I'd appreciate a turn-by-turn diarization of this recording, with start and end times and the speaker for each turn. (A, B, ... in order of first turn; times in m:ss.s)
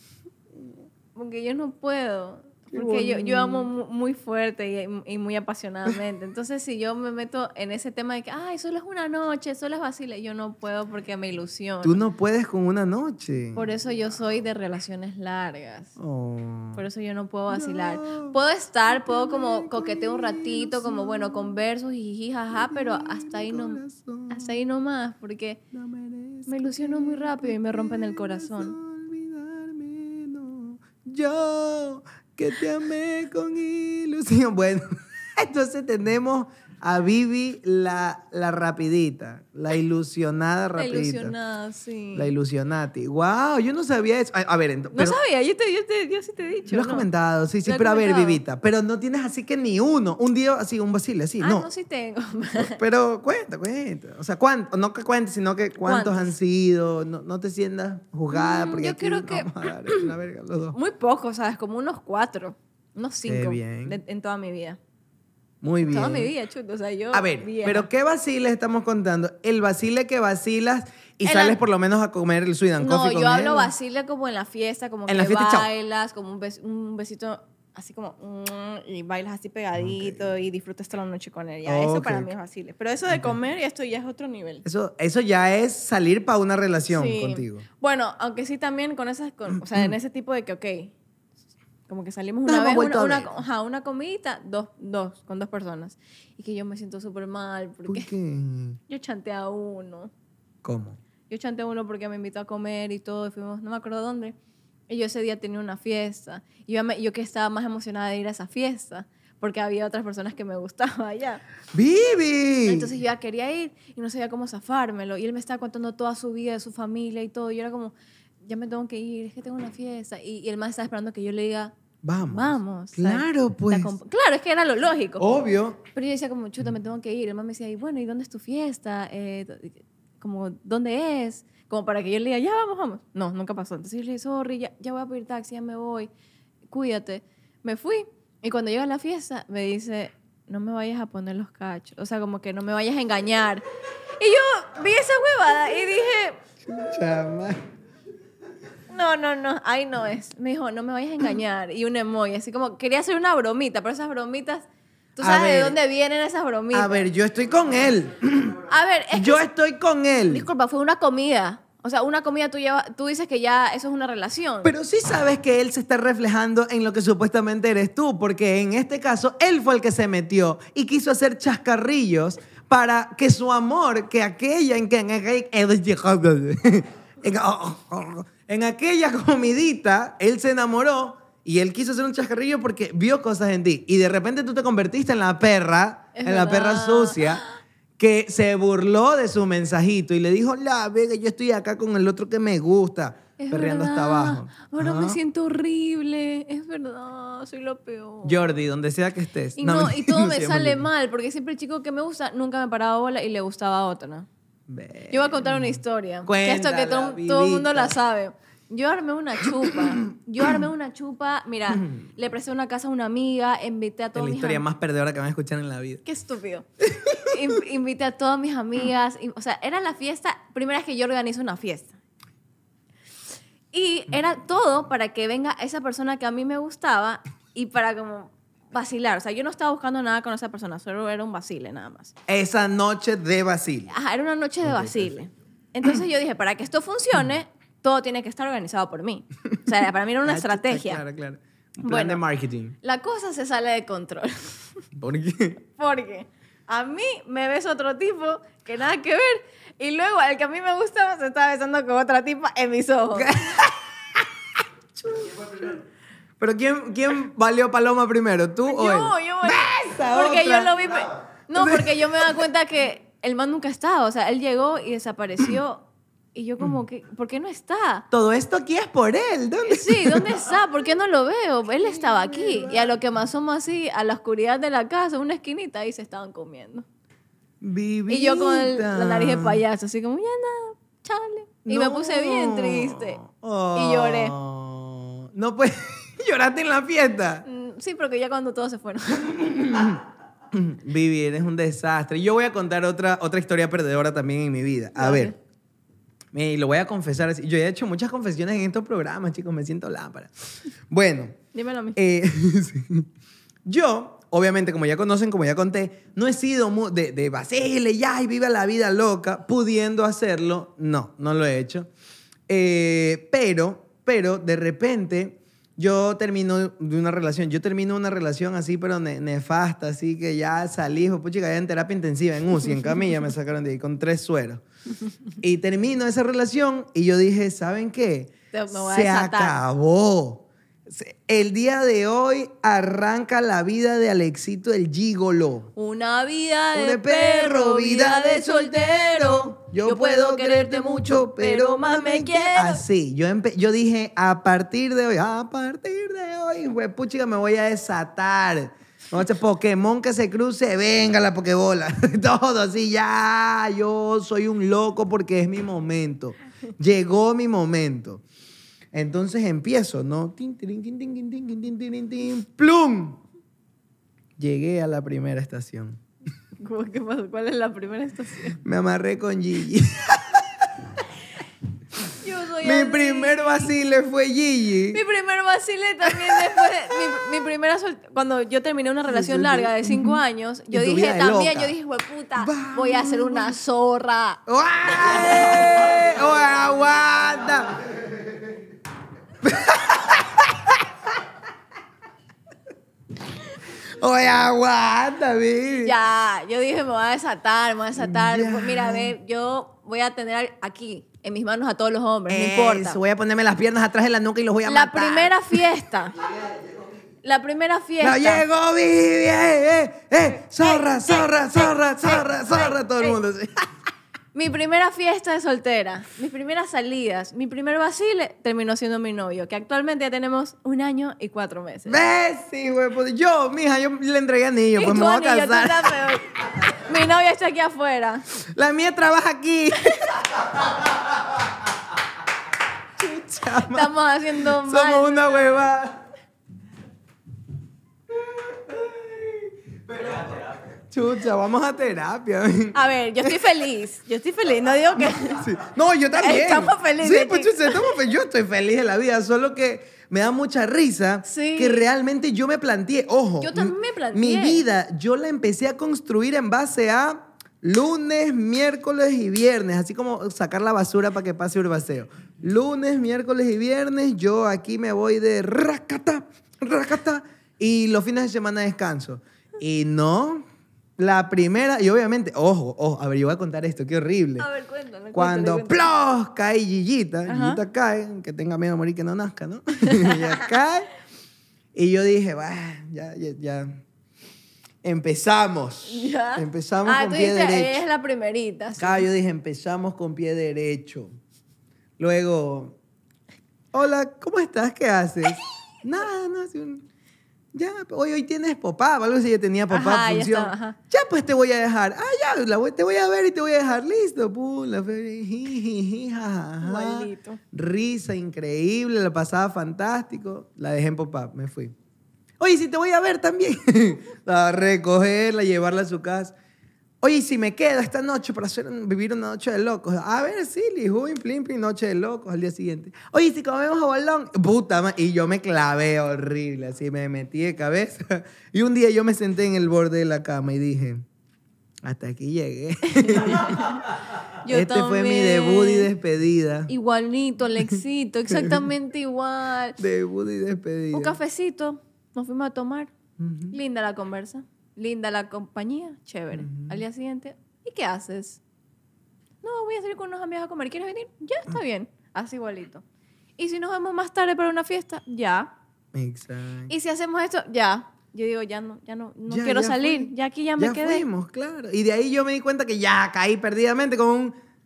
0:01.2-0:12.0 A
0:02.7-0:03.7 B
0:11.8-0:13.7 B
0:13.6-0:15.9 A
0:16.0-0:16.8 B
0:16.8-0:25.6 A
0:17.5-0:18.4 B
0:18.9-0:21.5 B
0:22.5-0:24.6 B
0:25.7-0:41.3 B
0:26.5-0:28.8 A
0:40.8-0:42.3 A
0:42.2-0:45.2 B
0:44.9-0:47.1 A
0:46.7-0:51.7 B
0:47.6-0:48.4 A
0:51.4-0:52.8 A
0:52.6-1:00.8 B
0:55.8-0:56.3 A
0:58.3-1:00.1 A
1:00.7-1:04.8 A
1:03.2-1:04.0 B
1:05.6-1:06.3 B
1:05.8-1:07.9 A
1:07.1-1:13.7 B
1:11.2-1:11.6 A
1:12.8-1:24.6 A
1:15.1-1:15.7 B
1:19.8-1:20.3 B
1:21.7-1:22.3 B
1:23.1-1:23.4 B
1:24.6-1:27.6 B
1:26.9-1:30.9 A
1:29.6-1:29.9 B
1:31.9-1:38.1 A
1:32.5-1:33.3 B
1:37.9-1:38.8 B
1:38.9-1:40.1 A
1:40.6-1:41.0 B
1:41.3-1:44.4 A
1:44.9-1:51.4 A
1:51.7-1:52.9 B
1:52.7-1:57.9 A
1:58.5-2:01.7 A
2:02.0-2:03.9 B
2:02.2-2:05.2 A
2:05.2-2:05.8 B
2:05.9-2:16.1 A
2:16.7-2:23.6 A
2:24.2-2:26.4 A
2:26.7-2:27.6 B
2:28.9-2:37.1 A
2:35.2-2:35.8 B
2:36.7-2:40.5 B
2:38.7-2:39.4 A
2:40.3-2:44.7 A
2:44.6-3:07.4 B
3:06.2-3:07.6 A
3:08.0-3:15.2 B
3:13.4-3:18.4 A
3:18.2-3:20.9 B
3:19.6-3:24.3 A
3:24.7-3:27.9 B
3:25.1-3:34.6 A
3:29.6-3:30.6 B
3:31.8-3:32.1 B
3:34.2-3:36.0 B
3:36.1-3:36.7 A
3:36.9-3:37.3 B
3:37.2-3:41.9 A
3:43.7-3:52.1 A
3:52.3-3:53.9 B
3:53.9-4:01.0 A
3:54.6-3:55.1 B
4:00.2-4:02.7 B
4:01.8-4:02.2 A
4:02.8-4:04.8 A
4:05.0-4:05.6 B
4:05.8-4:13.3 A
4:13.1-4:14.3 B
4:15.0-4:15.8 B
4:16.4-4:22.5 B
4:18.7-4:25.8 A
4:26.4-4:28.1 A
4:28.1-4:30.4 B
4:29.6-4:36.8 A
4:31.8-4:32.9 B
4:37.6-4:39.6 B
4:38.1-4:43.2 A
4:41.6-4:47.5 B
4:43.8-4:44.3 A
4:47.5-4:49.9 A
4:49.3-4:50.0 B
4:50.5-4:55.3 B
4:55.0-4:55.3 A
4:56.3-5:00.3 B
5:00.9-5:01.4 B
5:01.5-5:02.0 A
5:02.0-5:03.1 B
5:03.7-5:11.9 B
5:12.5-5:24.6 B
5:25.4-5:35.7 B
5:28.5-5:29.6 A
5:35.8-5:42.8 A
5:36.8-5:58.2 B
5:58.9-6:03.2 B
6:04.4-6:06.0 B
6:06.6-6:08.6 A
6:08.6-6:10.9 B
6:12.2-6:13.7 A
6:12.6-6:15.0 B
6:14.9-6:24.4 A
6:16.1-6:16.7 B
6:19.1-6:20.2 B
6:20.7-6:21.7 B
6:22.4-6:23.6 B
6:24.5-6:27.9 B
6:25.4-6:25.6 A
6:29.4-6:30.8 B
6:34.0-6:35.9 B
6:35.8-6:43.0 A
6:38.0-6:39.1 B
6:42.3-6:45.6 B
6:44.7-6:46.2 A
6:47.2-6:48.4 A
6:48.0-6:53.7 B
6:50.5-6:53.2 A
6:54.3-7:02.0 A
7:01.9-7:06.0 B
7:04.8-7:08.2 A
7:08.4-7:10.6 B
7:13.0-7:13.9 B
7:13.6-7:15.6 A
7:14.5-7:16.0 B
7:18.2-7:23.4 B
7:22.7-7:25.5 A
7:25.0-7:50.4 B
7:26.1-7:28.0 A
7:31.3-7:31.8 A
7:33.4-7:34.6 A
7:51.0-7:54.5 B
7:54.4-7:55.9 A
7:55.1-8:00.9 B
7:57.3-7:57.6 A
7:59.9-8:00.5 A
8:01.8-8:03.7 B
8:04.8-8:07.8 B
8:05.9-8:09.1 A
8:08.8-8:11.1 B
8:12.0-8:12.8 B
8:13.7-8:16.8 B
8:17.6-8:31.7 B
8:19.7-8:20.8 A
8:26.6-8:27.4 A
8:32.4-8:36.3 B
8:37.0-8:51.0 B
8:51.8-8:53.8 B
8:53.0-8:53.9 A
8:54.4-8:55.9 A
8:54.5-8:56.7 B
8:56.7-8:59.8 A
8:58.3-8:58.7 B
8:59.8-9:01.2 B
9:00.9-9:02.9 A
9:03.2-9:03.6 B
9:03.5-9:08.4 A
9:06.3-9:06.8 B
9:09.4-9:12.8 A
9:13.4-9:15.5 A
9:15.9-9:16.7 B
9:16.7-9:21.0 A
9:19.3-9:24.4 B